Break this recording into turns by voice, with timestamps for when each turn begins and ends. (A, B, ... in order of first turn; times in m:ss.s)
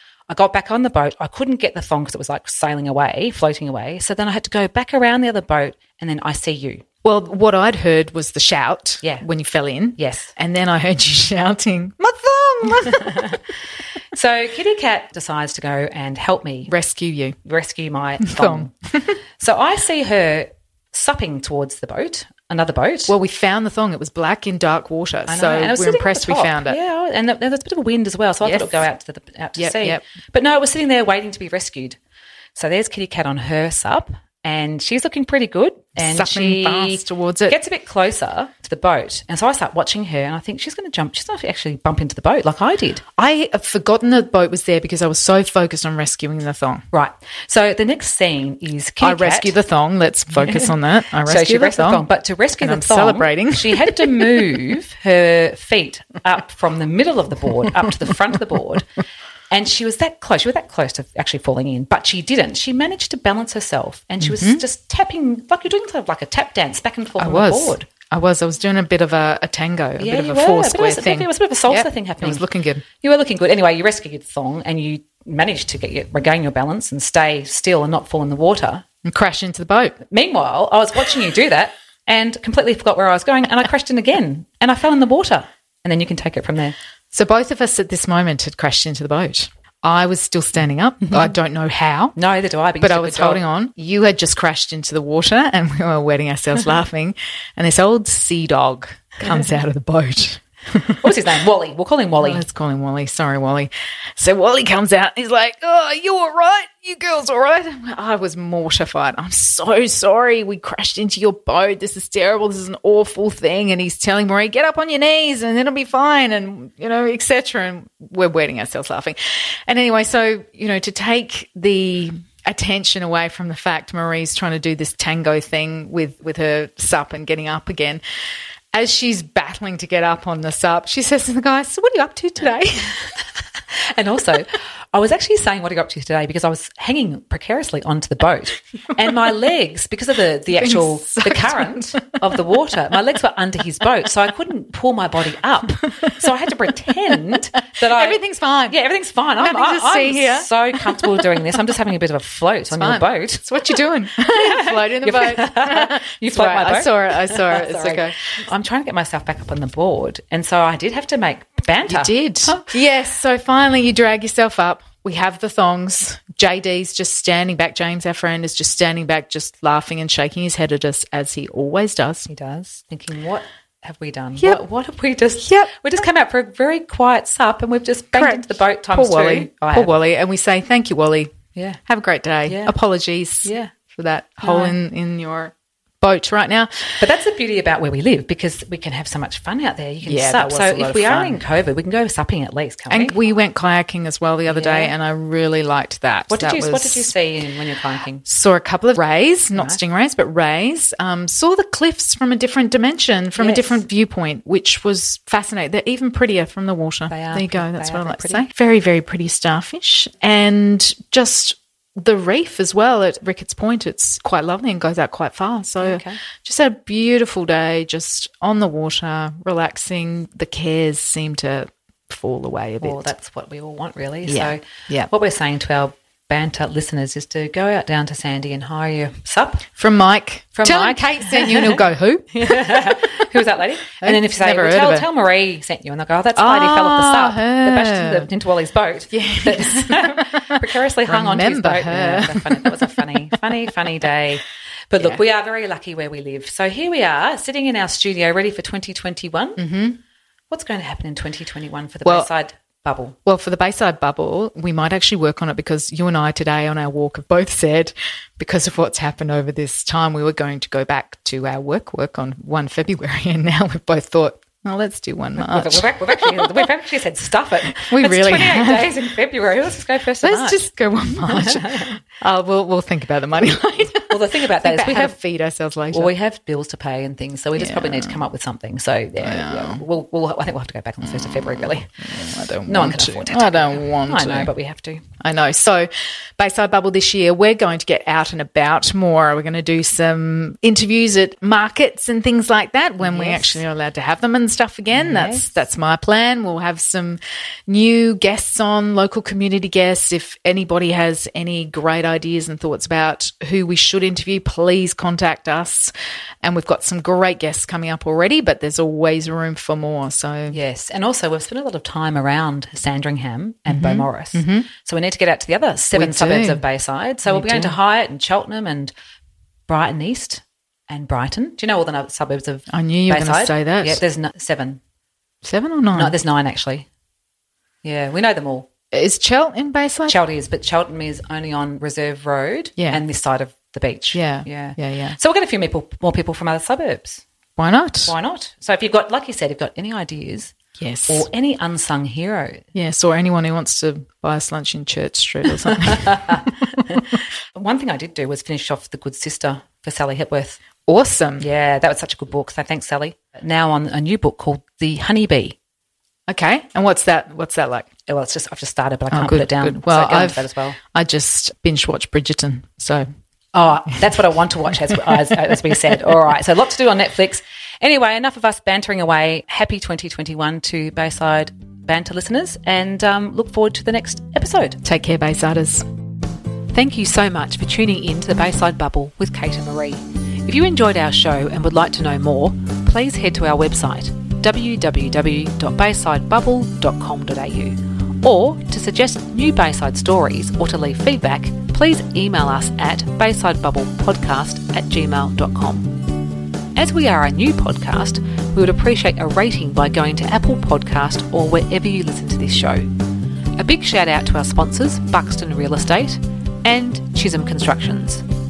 0:00.3-0:06.8 A
0:07.0-0:13.4 B
0:10.0-0:10.3 A
0:12.7-0:13.4 A
0:14.1-0:16.7 A
0:16.7-0:17.4 B
0:17.4-0:18.7 A
0:18.2-0:19.1 B
0:19.4-0:23.1 A
0:23.1-0:26.8 B
0:25.3-0:32.0 A
0:28.4-0:28.8 B
0:29.6-0:30.0 B
0:32.5-0:43.0 A
0:36.0-0:37.6 B
0:43.2-0:46.8 B
0:46.9-0:49.6 A
0:49.0-0:52.0 B
0:50.4-0:58.8 A
0:52.6-0:54.4 B
0:59.5-1:07.9 A
1:04.2-1:04.6 B
1:07.2-1:12.8 B
1:10.0-1:12.4 A
1:13.0-1:18.8 A
1:19.0-1:19.9 B
1:20.1-1:26.7 A
1:27.1-1:32.2 B
1:32.1-1:33.4 A
1:32.8-1:41.1 B
1:41.0-1:42.4 A
1:42.2-2:08.0 B
2:08.7-2:13.0 B
2:13.9-2:42.7 A
2:20.5-2:22.0 B
2:27.8-2:28.8 B
2:29.4-2:31.5 B
2:32.7-2:38.2 B
2:41.9-2:52.3 B
2:52.3-2:59.9 A
2:55.4-2:55.7 B
2:58.1-3:01.3 B
3:01.5-3:01.8 A
3:01.9-3:06.9 B
3:02.4-3:02.7 A
3:03.4-3:03.7 A
3:04.4-3:04.8 A
3:07.0-3:13.2 A
3:10.0-3:11.4 B
3:12.9-3:17.1 B
3:14.5-3:14.9 A
3:16.3-3:18.2 A
3:18.2-3:43.1 B
3:23.4-3:23.8 A
3:27.1-3:28.5 A
3:35.8-3:36.2 A
3:42.8-3:49.7 A
3:44.2-3:45.1 B
3:49.8-3:52.4 B
3:50.5-4:09.6 A
3:54.0-3:55.1 B
3:56.4-3:58.3 B
3:59.1-4:03.0 B
4:09.6-4:10.0 B
4:10.5-4:13.2 A
4:12.0-4:12.3 B
4:13.2-4:26.7 B
4:25.4-4:30.7 A
4:27.7-4:29.0 B
4:30.2-4:36.1 B
4:31.2-4:32.0 A
4:34.0-4:35.2 A
4:35.9-4:41.9 A
4:37.6-4:38.2 B
4:39.2-4:39.8 B
4:41.9-4:44.5 B
4:42.6-4:45.0 A
4:45.2-5:10.6 B
4:53.0-4:53.6 A
4:54.9-4:55.6 A
5:10.5-5:18.9 A
5:13.7-5:14.7 B
5:15.9-5:16.6 B
5:17.2-5:17.8 B
5:19.7-5:24.8 A
5:22.7-5:24.0 B
5:25.4-5:26.2 B
5:25.9-5:26.9 A
5:27.8-5:28.6 A
5:28.9-5:30.2 B
5:30.1-5:37.2 A
5:32.8-5:33.0 B
5:34.1-5:35.2 B
5:37.6-5:38.1 B
5:38.0-5:40.5 A
5:40.8-5:41.3 B
5:41.1-5:42.6 A
5:42.7-5:46.8 B
5:45.7-5:50.6 A
5:50.9-5:51.4 B
5:51.4-5:55.6 A
5:56.3-5:57.9 B
5:58.1-6:00.8 A
5:59.1-6:03.0 B
6:03.5-6:14.8 A
6:14.8-6:15.8 B
6:16.7-6:36.0 A
6:36.8-6:42.9 A
6:43.6-6:48.2 A